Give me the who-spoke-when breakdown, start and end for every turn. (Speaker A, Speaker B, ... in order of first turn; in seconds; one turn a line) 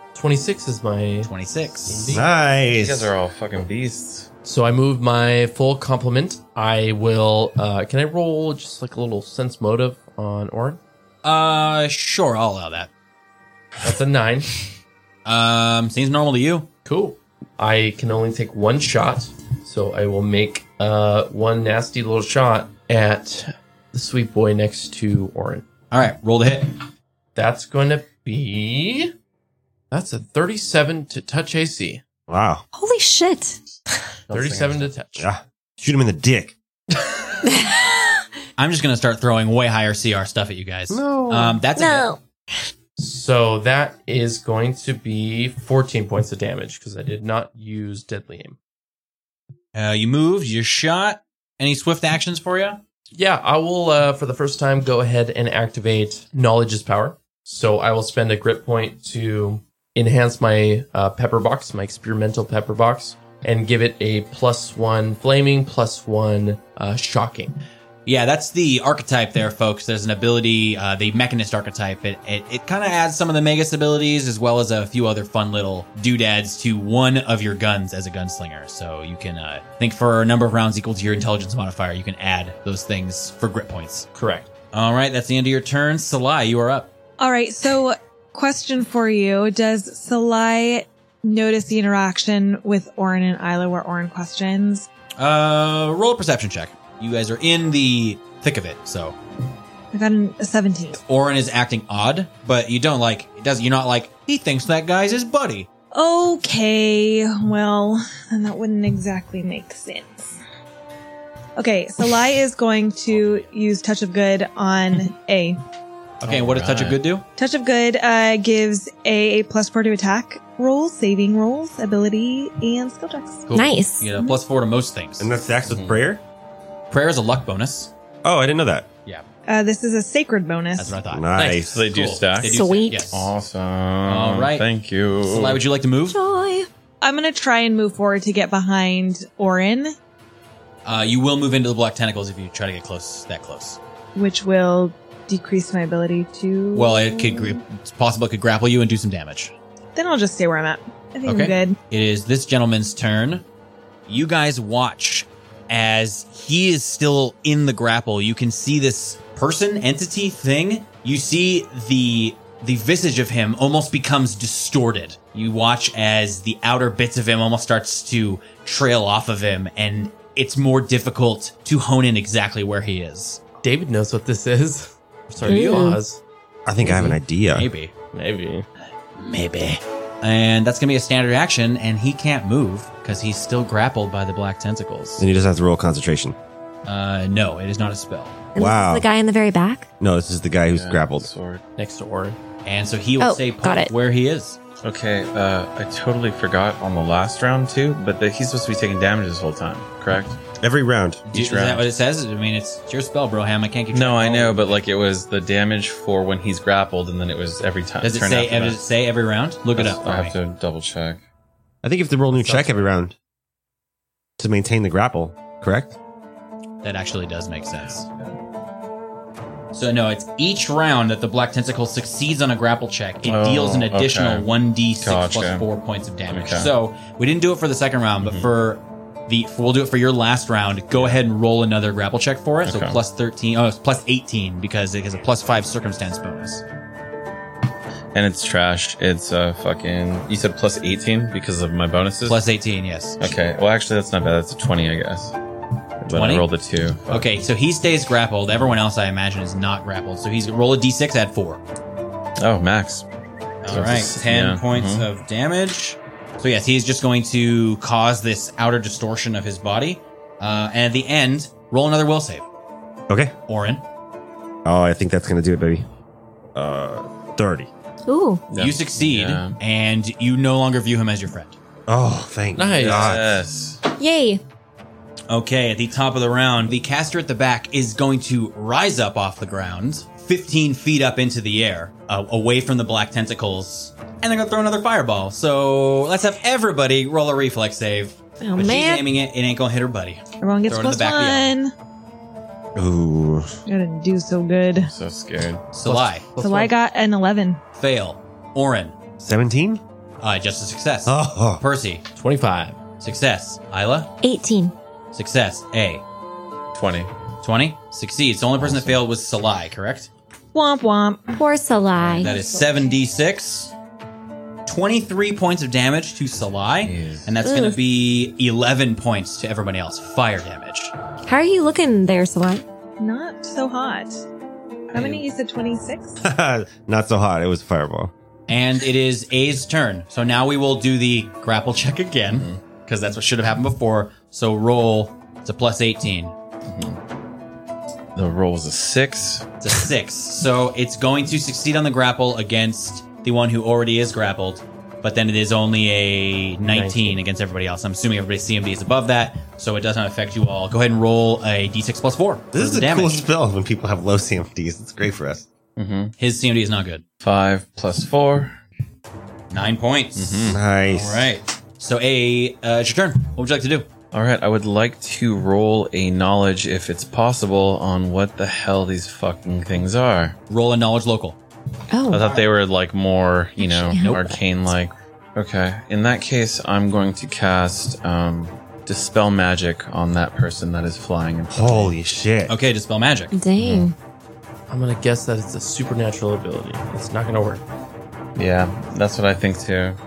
Speaker A: 0.1-1.3
Speaker B: 1.2-2.2
Speaker A: 1.8-2.3
Speaker C: 2.1-3.1
Speaker D: 2.6-4.3
Speaker A: 4.4-10.8
Speaker B: 11.2-12.9
Speaker A: 13.8-14.7
Speaker B: 15.2-16.7
Speaker A: 16.8-25.7
Speaker B: 25.9-26.7
Speaker A: 27.3-29.1
Speaker A: 29.9-32.0
Speaker C: 32.3-32.6
Speaker E: 32.7-34.0
Speaker D: 34.3-34.9
Speaker A: 34.3-35.3
Speaker C: 35.2-36.5
Speaker E: 37.5-38.2
Speaker B: 38.6-42.1
Speaker C: 40.9-41.6
Speaker E: 41.7-42.2
Speaker A: 43.0-48.6
Speaker B: 49.7-52.8
Speaker A: 53.1-67.6
Speaker B: 68.0-84.1
Speaker A: 84.1-84.5
Speaker B: 84.7-86.9
Speaker F: 87.2-94.9
Speaker B: 95.2-99.2
Speaker F: 99.9-101.0
Speaker B: 101.0-105.7
Speaker F: 105.9-110.4
Speaker F: 111.6-115.6
Speaker B: 116.2-117.2
Speaker D: 116.2-117.0
Speaker F: 117.4-123.5
Speaker E: 123.5-124.1
Speaker B: 123.9-125.3
Speaker C: 125.2-126.2
Speaker D: 125.7-126.0
Speaker B: 126.9-127.9
Speaker C: 128.2-128.9
Speaker F: 129.5-130.9
Speaker B: 130.8-133.3
Speaker C: 131.1-131.7
Speaker D: 131.4-135.6
Speaker E: 132.4-133.1
Speaker B: 134.0-134.7
Speaker B: 135.2-136.2
Speaker E: 136.1-136.7
Speaker F: 137.0-139.9
Speaker B: 140.8-143.8
Speaker F: 144.1-147.6
Speaker B: 146.7-149.5
Speaker F: 149.9-151.8
Speaker B: 151.2-153.4
Speaker B: 154.1-173.4
Speaker A: 173.6-176.2
Speaker B: 175.4-175.8
Speaker E: 175.4-176.0
Speaker C: 176.7-177.7
Speaker A: 176.8-177.2
Speaker B: 177.5-177.9
Speaker A: 178.1-178.7
Speaker B: 179.2-185.2
Speaker C: 185.2-186.3
Speaker B: 186.8-188.4
Speaker E: 188.5-189.9
Speaker C: 188.6-189.1
Speaker C: 190.0-191.3
Speaker D: 190.7-191.6
Speaker A: 191.8-192.4
Speaker B: 192.6-194.6
Speaker E: 193.2-193.9
Speaker D: 194.8-200.4
Speaker C: 200.6-201.3
Speaker D: 201.3-201.9
Speaker B: 201.3-204.8
Speaker D: 203.9-208.8
Speaker B: 208.0-210.4
Speaker D: 209.8-211.2
Speaker C: 211.8-213.1
Speaker A: 212.3-212.8
Speaker C: 214.4-215.9
Speaker B: 216.8-218.1
Speaker D: 218.1-218.3
Speaker B: 219.7-236.6
Speaker D: 223.2-224.5
Speaker D: 225.0-225.6
Speaker D: 226.3-226.7
Speaker D: 228.2-228.5
Speaker D: 230.9-231.2
Speaker D: 232.6-233.0
Speaker D: 238.1-242.4
Speaker B: 242.2-243.3
Speaker D: 243.2-245.3
Speaker D: 246.0-247.3
Speaker B: 246.1-246.5
Speaker B: 247.1-251.6
Speaker D: 252.4-253.1
Speaker B: 253.6-262.4
Speaker D: 253.6-255.1
Speaker C: 263.1-263.3
Speaker B: 263.5-263.8
Speaker C: 264.6-265.8
Speaker C: 266.5-267.7
Speaker E: 268.1-268.4
Speaker D: 268.5-269.6
Speaker B: 268.6-271.6
Speaker C: 271.9-273.4
Speaker A: 272.5-273.1
Speaker D: 272.8-273.8
Speaker E: 273.9-274.4
Speaker B: 275.3-291.5
Speaker E: 288.4-289.1
Speaker F: 290.4-291.7
Speaker C: 292.7-293.6
Speaker F: 293.6-294.9
Speaker D: 294.8-295.7
Speaker B: 295.7-296.3
Speaker A: 295.8-296.7
Speaker F: 296.4-297.6
Speaker B: 297.8-298.9
Speaker C: 299.2-299.8
Speaker B: 300.2-302.0
Speaker C: 301.1-301.6
Speaker A: 302.1-302.8
Speaker B: 303.0-304.1
Speaker E: 304.2-304.7
Speaker B: 305.1-306.0
Speaker D: 306.7-307.1
Speaker B: 307.4-310.1
Speaker D: 308.6-309.0
Speaker F: 310.5-311.4
Speaker E: 311.3-312.8
Speaker B: 312.1-313.7
Speaker B: 314.6-320.9
Speaker D: 316.8-317.3
Speaker E: 317.4-317.8
Speaker E: 321.2-322.6
Speaker F: 323.0-324.2
Speaker F: 324.9-326.2
Speaker C: 326.2-328.1
Speaker B: 328.5-336.3
Speaker D: 332.3-332.6
Speaker D: 336.6-337.0
Speaker D: 338.1-339.5
Speaker B: 339.6-353.2
Speaker A: 346.7-347.2
Speaker C: 352.5-355.4
Speaker D: 355.8-356.1
Speaker B: 356.2-357.0
Speaker D: 357.2-358.5
Speaker B: 359.5-363.9
Speaker D: 360.1-360.6
Speaker C: 360.5-361.3
Speaker D: 364.1-370.4
Speaker B: 370.5-371.4
Speaker E: 371.9-372.4
Speaker D: 372.1-381.9
Speaker E: 373.6-374.4
Speaker C: 381.5-382.6
Speaker B: 382.5-383.3
Speaker E: 383.3-383.9
Speaker D: 383.6-383.9
Speaker A: 384.7-387.6
Speaker D: 388.4-390.0